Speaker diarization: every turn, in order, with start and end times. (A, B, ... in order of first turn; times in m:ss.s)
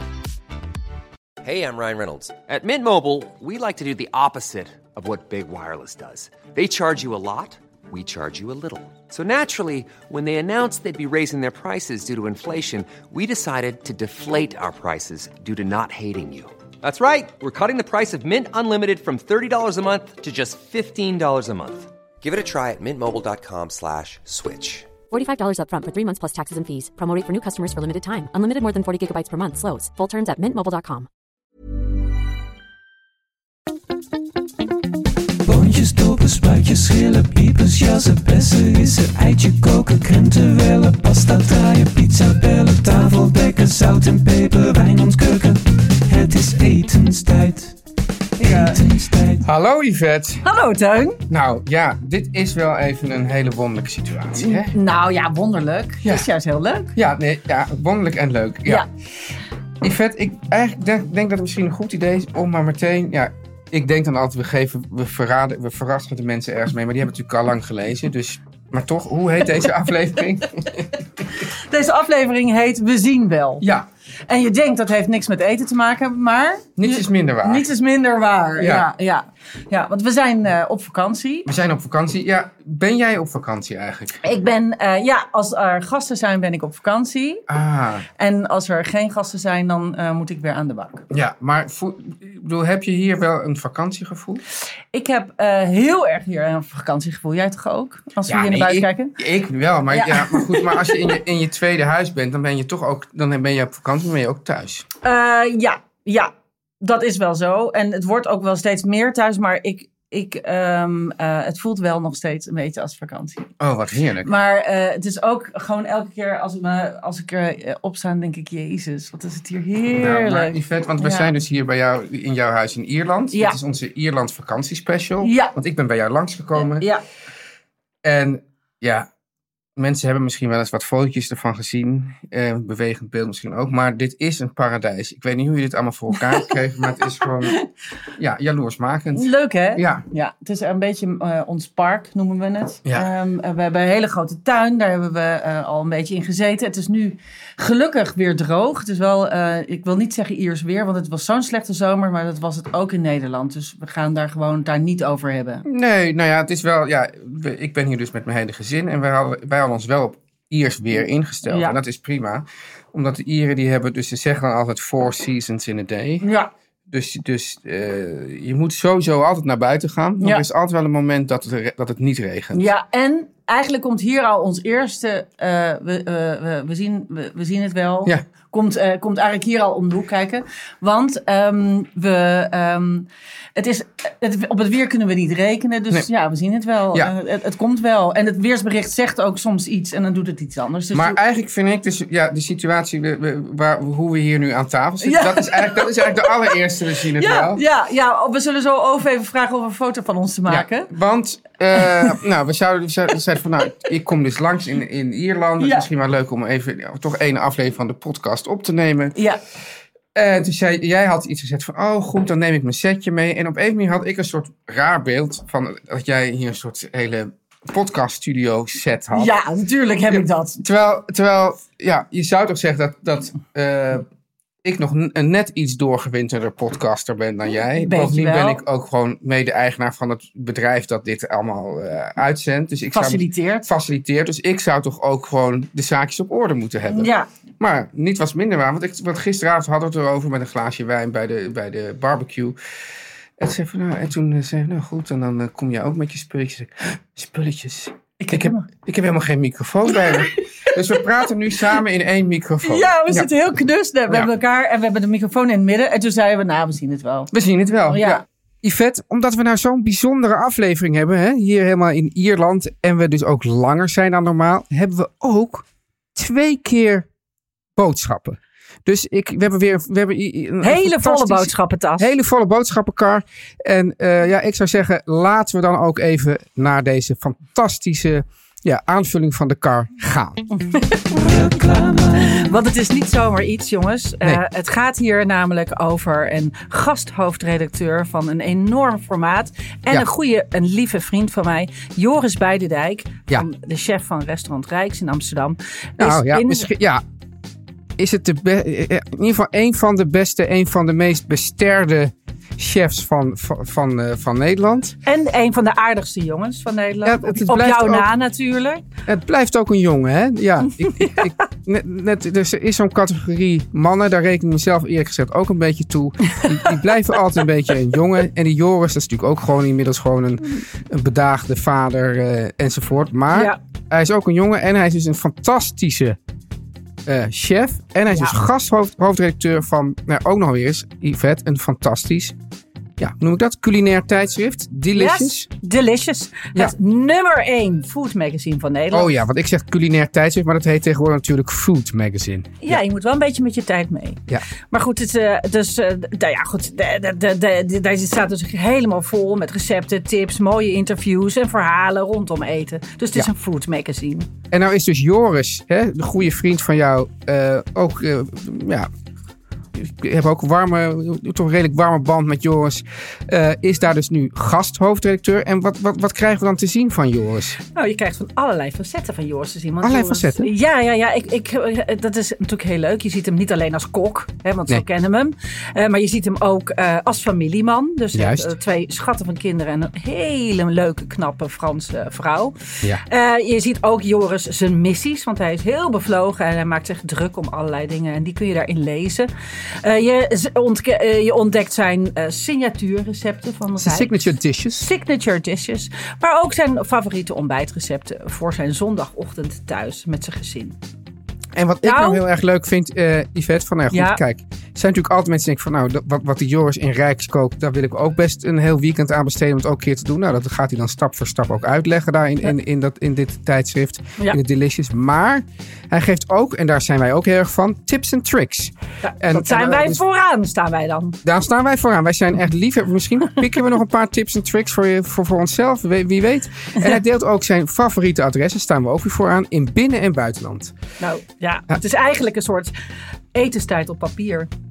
0:01.4-0:24.9 A
0:25.1-0:31.1 B
0:35.4-0:47.8 C
0:48.4-0:49.4 C
0:48.4-0:48.8 D
0:49.4-0:50.4 E
0:50.4-0:51.2 D
0:51.3-0:54.8 E
0:54.3-0:57.0 D
0:57.0-0:58.9 E
0:59.8-1:11.0 E
1:11.3-1:13.6 D
1:13.6-1:13.9 E
1:14.3-1:21.5 D
1:16.8-1:17.6 E
1:18.6-1:18.9 E
1:21.5-1:24.2 E
1:24.2-1:27.4 D
1:27.5-1:28.1 E
1:28.2-1:31.0 D
1:31.1-1:34.4 E
1:34.9-1:39.2 D
1:38.3-1:44.9 E
1:39.9-1:41.0 D
1:45.0-1:53.5 D
1:53.6-1:54.3 E
1:54.2-2:01.3 D
2:00.0-2:06.9 E
2:03.3-2:03.6 D
2:05.2-2:05.6 D
2:06.6-2:07.0 D
2:08.0-2:09.1 E
2:09.8-2:17.6 E
2:16.2-2:17.6 D
2:18.2-2:20.0 E
2:19.1-2:35.6 D
2:35.6-2:46.3 E
2:41.4-2:41.8 D
2:46.2-2:46.5 D
2:46.9-2:52.7 E
2:50.2-2:50.4 D
2:52.5-3:11.2 D
3:10.9-3:17.6 E
3:15.0-3:16.6 D
3:17.1-3:20.9 D
3:20.5-3:29.2 E
3:21.8-3:22.2 D
3:25.6-3:25.9 D
3:29.2-3:29.4 D
3:30.2-3:39.3 E
3:39.1-3:40.6 D
3:40.1-3:44.0 E
3:44.6-4:02.6 E
3:47.8-3:48.6 D
3:52.9-3:53.7 D
3:56.9-3:57.3 D
4:03.4-4:13.3 E
4:08.2-4:08.7 D
4:09.9-4:11.8 D
4:12.6-4:17.3 D
4:17.3-4:27.1 E
4:17.9-4:18.2 D
4:27.8-4:40.4 E
4:30.6-4:32.1 D
4:40.7-4:41.0 D
4:41.1-4:42.5 C
4:42.3-4:56.7 D
4:56.0-4:57.0 E
4:58.0-5:05.0 E
5:05.1-5:08.9 D
5:07.0-5:08.1 E
5:09.1-5:26.2 E
5:10.8-5:11.4 D
5:16.3-5:16.9 D
5:23.3-5:23.6 D
5:27.1-5:32.4 E
5:28.1-5:28.4 D
5:33.0-5:35.5 E
5:34.9-5:39.1 D
5:38.9-5:42.8 E
5:42.6-5:54.3 D
5:54.5-5:58.9 E
5:59.8-6:07.6 E
6:07.7-6:29.3 D
6:09.8-6:10.5 E
6:18.1-6:18.6 E
6:29.8-6:40.8 D
6:33.8-6:34.9 E
6:41.5-7:00.0 E
6:41.8-6:42.2 D
6:43.9-6:44.2 D
6:59.0-7:01.2 D
7:01.2-7:10.8 E
7:11.0-7:12.8 D
7:13.3-7:14.5 D